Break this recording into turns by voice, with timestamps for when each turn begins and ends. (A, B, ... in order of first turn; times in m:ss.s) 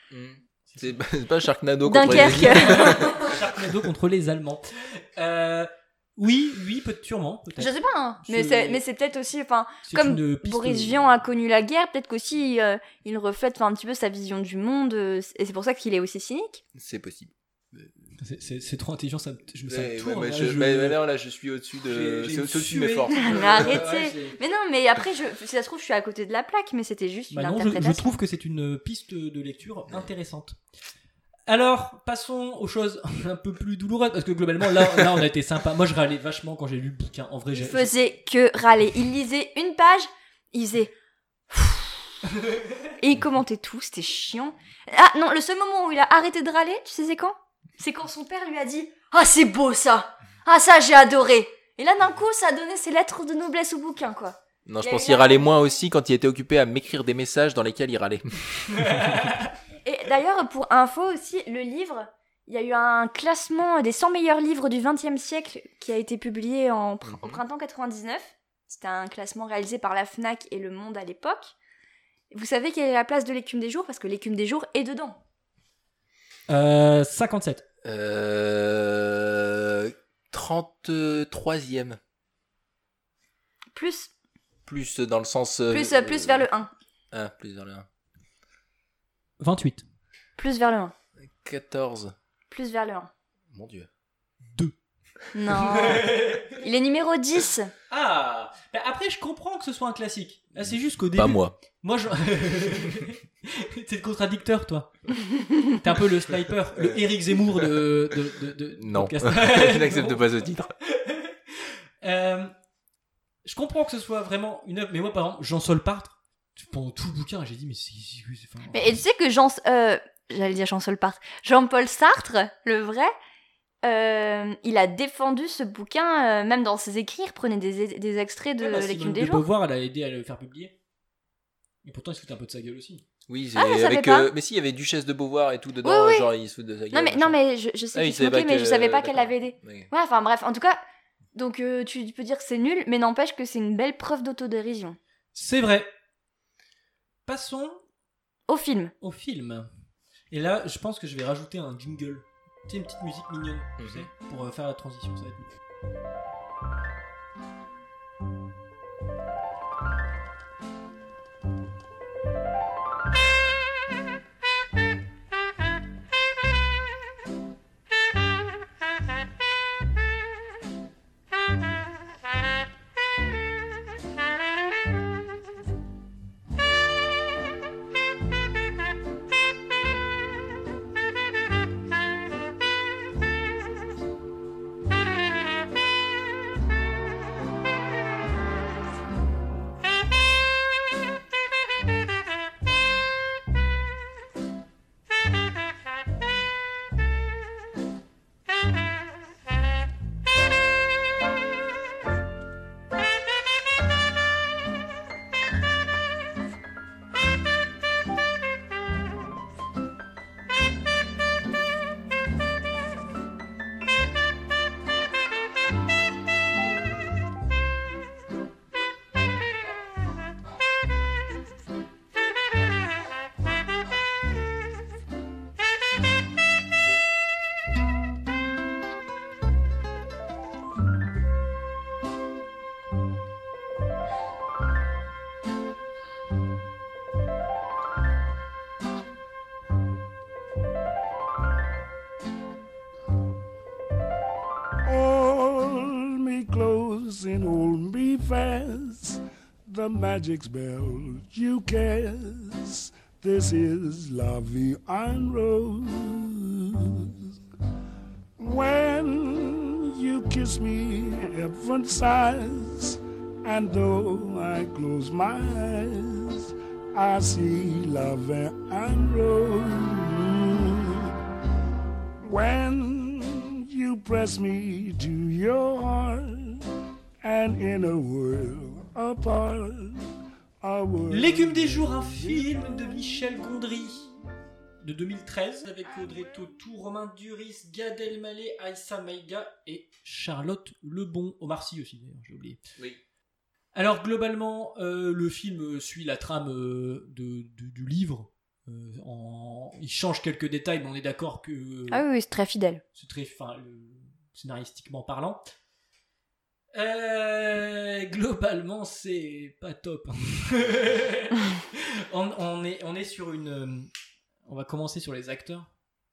0:00.1-0:03.4 A
0:00.7-0:01.0 B
0:01.9-0:03.1 C
0:02.1-0:07.7 B
0:07.6-0:16.6 C
0:08.2-0:08.8 B
0:09.8-0:11.0 B
0:16.8-0:17.9 A
0:18.2-0:21.0 B
0:19.7-0:23.9 A
0:21.9-0:24.4 B
0:23.1-0:28.2 C
0:27.3-0:30.6 B
0:31.5-0:37.9 B
0:37.5-0:40.9 C
0:41.5-0:42.2 C
0:43.0-0:55.5 C
0:54.7-0:59.3 A
0:58.8-0:59.5 B
0:59.8-1:11.5 C
1:07.0-1:07.4 A
1:12.3-1:15.2 C
1:16.5-1:17.6 B
1:17.8-1:22.0 A
1:23.7-1:24.1 C
1:24.7-1:26.5 A
1:25.7-1:26.7 C
1:27.1-1:27.9 A
1:29.4-1:29.8 B
1:30.4-1:30.9 C
1:31.4-1:32.1 A
1:32.5-1:33.1 C
1:33.5-1:33.9 A
1:35.3-1:37.7 C
1:35.5-1:36.6 B
1:37.9-1:45.1 B
1:40.6-1:41.6 A
1:45.7-1:50.3 B
1:46.8-1:47.0 A
1:48.8-1:50.7 A
1:50.8-1:52.5 B
1:53.4-1:58.9 B
1:58.7-2:03.1 C
2:03.8-2:09.5 C
2:08.6-2:10.7 B
2:11.8-2:13.0 B
2:13.3-2:17.4 A
2:13.6-2:14.3 C
2:15.8-2:16.3 C
2:16.9-2:20.8 C
2:17.9-2:19.9 A
2:21.4-2:25.0 C
2:25.3-2:25.9 B
2:27.3-2:27.8 B
2:28.5-2:28.9 C
2:29.0-2:29.7 B
2:30.3-2:35.5 B
2:33.8-2:34.1 A
4:04.8-4:17.2 D
4:18.4-4:31.1 D
4:32.2-4:36.6 D
4:37.2-4:40.0 D
4:40.6-4:43.0 D
4:41.1-4:44.1 B
4:44.8-4:52.6 B
4:53.8-5:02.0 B
5:01.9-5:02.8 C
5:03.0-5:05.4 B
5:06.7-5:13.9 B
5:14.5-5:15.7 B